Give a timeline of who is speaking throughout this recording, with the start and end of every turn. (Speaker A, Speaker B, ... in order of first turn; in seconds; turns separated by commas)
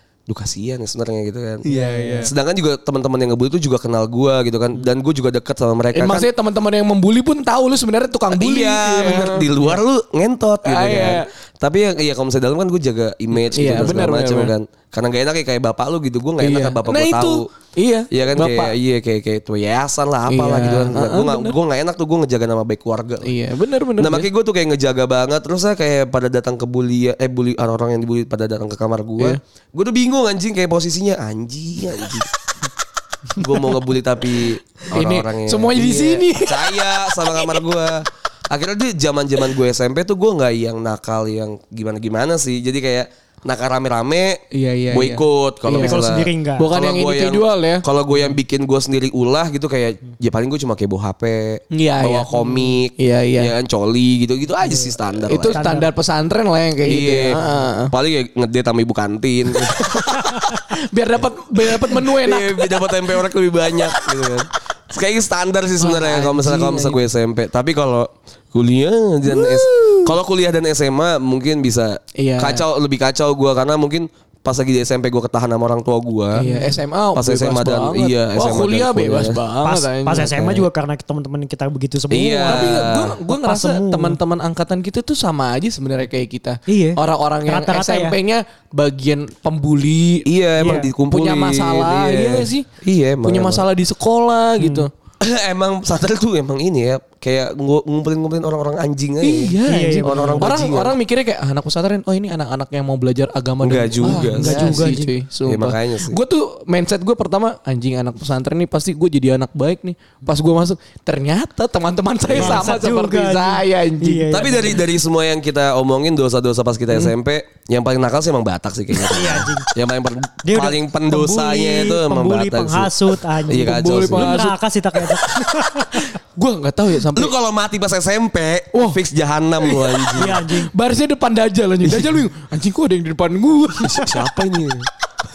Speaker A: 0.3-6.3, Speaker B: 1.6-2.3, Speaker C: 1.7-2.3, Speaker B: 5.9-9.8, Speaker A: 8.3-17.4, Speaker B: 10.6-11.3, Speaker B: 13.3-14.5, Speaker B: 16.4-18.7, Speaker A: 18.1-23.4, Speaker B: 20.3-21.6, Speaker B: 23.2-24.3, Speaker A: 24.0-32.3, Speaker A: 33.3-44.4, Speaker B: 34.9-37.6, Speaker B: 44.5-46.0, Speaker A: 44.9-55.6, Speaker C: 45.7-46.7, Speaker B: 46.6-47.8, Speaker B: 51.7-53.5, Speaker C: 54.6-54.9, Speaker B: 55.2-57.9, Speaker C: 55.5-55.9, Speaker A: 56.9-57.4, Speaker A: 57.9-60.1, Speaker B: 59.6-63.2, Speaker A: 61.7-76.5, Speaker B: 65.8-67.0, Speaker B: 69.2-70.1, Speaker B: 72.2-72.6, Speaker B: 76.3-80.6, Speaker C: 76.4-76.8, Speaker A: 77.1-79.4, Speaker C: 79.6-84.2, Speaker A: 82.1-83.2, Speaker B: 82.5-90.2, Speaker C: 86.7-88.2, Speaker A: 90.3-93.6, Speaker C: 90.6-90.9, Speaker B: 91.1-92.7, Speaker B: 93.2-94.9, Speaker C: 94.6-94.9, Speaker A: 95.2-100.9, Speaker B: 99.2-114.3, Speaker C: 99.7-100.5, Speaker A: 103.6-106.2, Speaker C: 104.0-105.1, Speaker A: 112.3-112.7, Speaker C: 112.3-114.8, Speaker A: 114.3-122.9, Speaker C: 119.1-119.7, Speaker C: 120.4-126.1, Speaker A: 123.5-124.3, Speaker B: 123.5-124.5, Speaker B: 125.9-127.3, Speaker A: 127.1-130.4, Speaker B: 128.7-129.0, Speaker B: 129.6-134.2, Speaker C: 130.2-130.7, Speaker A: 131.8-132.2, Speaker A: 133.8-134.9